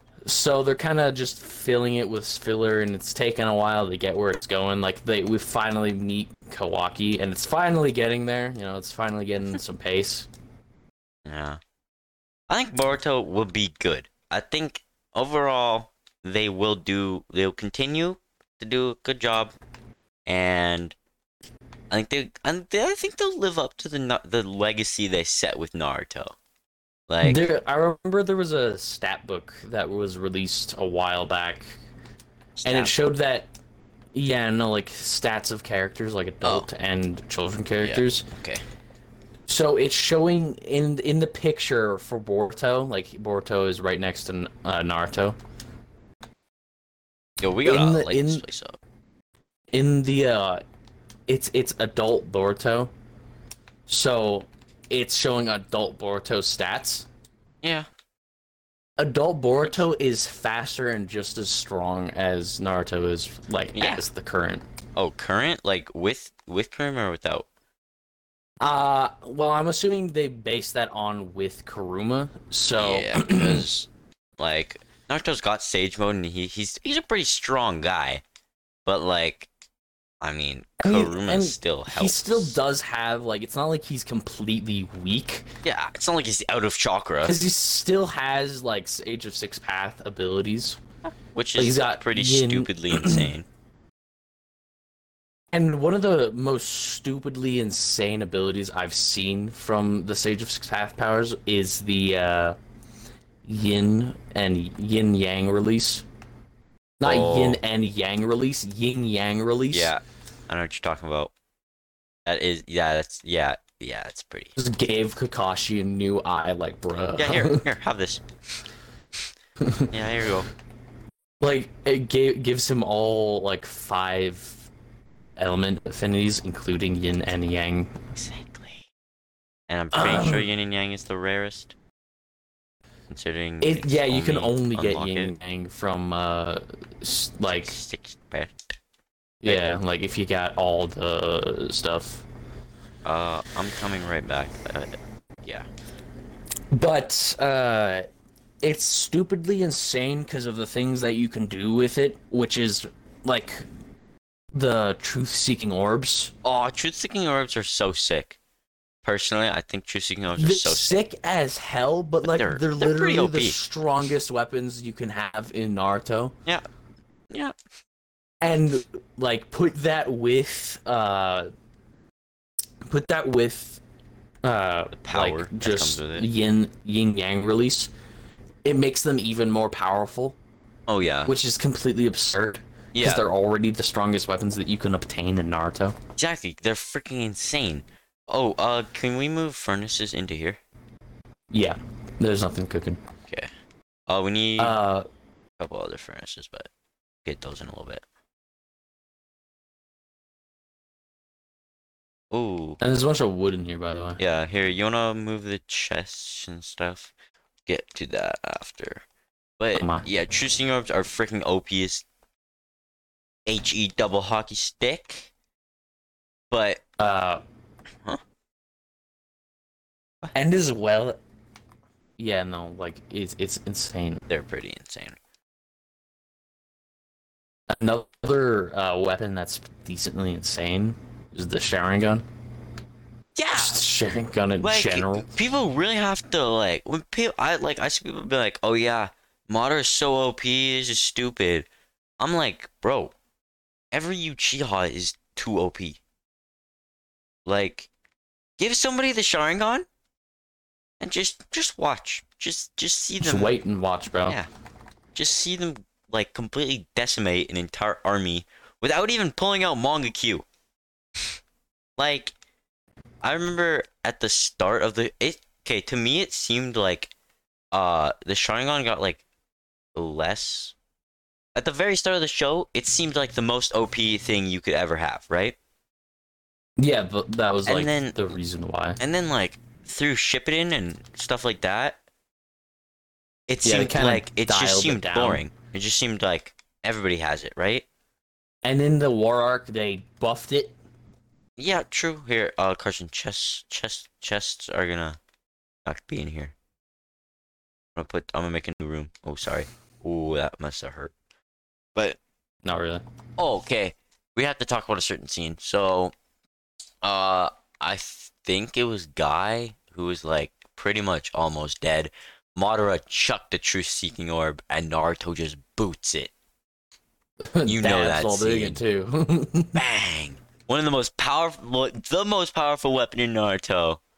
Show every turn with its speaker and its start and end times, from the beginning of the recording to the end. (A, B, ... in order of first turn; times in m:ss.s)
0:00.2-0:10.3 A
0:11.2-0:11.6 B
0:12.5-0:19.5 B
0:20.3-0:21.0 B
0:21.9-0:26.4 B
0:27.1-0:27.4 B
0:27.2-0:31.7 A
0:32.6-0:33.0 B
0:32.6-0:33.5 A
0:34.1-0:38.3 A
0:37.8-0:38.6 B
0:39.5-0:45.4 A
0:47.4-0:48.8 B
0:47.6-0:48.4 A
0:49.7-0:50.6 A
0:51.3-0:52.9 A
0:53.9-0:57.1 A
0:57.6-0:57.9 B
0:59.0-1:04.6 A
1:03.7-1:04.0 B
1:05.0-1:07.5 B
1:08.6-1:13.6 A
1:12.8-1:18.2 B
1:18.8-1:19.5 B
1:20.2-1:22.6 B
1:20.8-1:25.5 A
1:25.6-1:27.4 B
1:27.2-1:30.8 A
1:31.3-1:33.4 B
1:31.6-1:33.3 A
1:35.5-1:42.6 A
1:43.4-1:46.0 A
1:47.0-1:49.9 A
1:47.0-1:47.6 B
1:49.7-1:51.3 B
1:52.2-1:54.5 B
1:54.6-1:57.6 A
1:57.2-1:58.2 B
1:59.6-1:59.9 A
1:59.9-2:00.5 B
2:01.4-2:04.7 A
2:05.4-2:07.9 A
2:08.1-2:08.8 B
2:09.7-2:11.7 B
2:09.9-2:10.5 A
2:13.1-2:15.3 B
2:13.6-2:17.7 A
2:17.6-2:18.6 B
2:19.4-2:22.2 A
2:23.0-2:25.7 B
2:26.7-2:28.1 A
2:28.6-2:33.7 A
2:34.5-2:36.3 A
2:36.4-2:38.4 B
2:39.0-2:41.0 B
2:40.4-2:46.3 A
2:42.2-2:43.6 B
2:48.4-2:51.5 A
2:52.8-2:53.8 A
2:54.4-2:57.9 A
2:55.0-2:56.3 B
2:58.6-3:00.4 A
3:00.9-3:01.3 B
3:01.2-3:06.0 A
3:02.9-3:03.2 B
3:06.2-3:10.6 B
3:11.5-3:13.0 A
3:14.1-3:14.8 B
3:14.6-3:15.0 A
3:15.6-3:16.7 B
3:17.2-3:18.0 B
3:22.3-3:22.8 B
3:22.8-3:24.2 A
3:24.2-3:27.1 B
3:27.7-3:29.0 B
3:29.6-3:32.0 B
3:29.7-3:30.0 A
3:33.4-3:35.3 B
3:36.5-3:36.8 B
3:37.0-3:37.4 A
3:40.3-3:41.2 A
3:42.2-3:44.2 A
3:44.3-3:45.2 B
3:47.7-3:52.2 A
3:53.4-3:53.8 B
3:53.5-3:55.3 A
3:54.6-4:01.7 B
4:02.2-4:03.1 B
4:03.9-4:06.0 B
4:07.4-4:07.9 B
4:08.6-4:09.8 B
4:11.0-4:13.5 B
4:13.2-4:14.4 A
4:15.1-4:20.4 B
4:22.0-4:22.3 B
4:23.2-4:27.1 B
4:27.7-4:29.2 B
4:29.9-4:30.7 B
4:31.5-4:35.6 B
4:36.8-4:39.0 A
4:37.6-4:38.2 B
4:39.0-4:42.0 B
4:43.5-4:47.8 B
4:43.6-4:45.4 A
4:48.6-4:50.7 A
4:51.6-4:55.2 B
4:55.8-4:56.5 B
4:58.0-5:01.1 B
5:02.6-5:03.0 A
5:03.4-5:06.1 B
5:07.0-5:16.3 B
5:17.5-5:19.8 A
5:17.6-5:18.8 B
5:19.7-5:24.0 B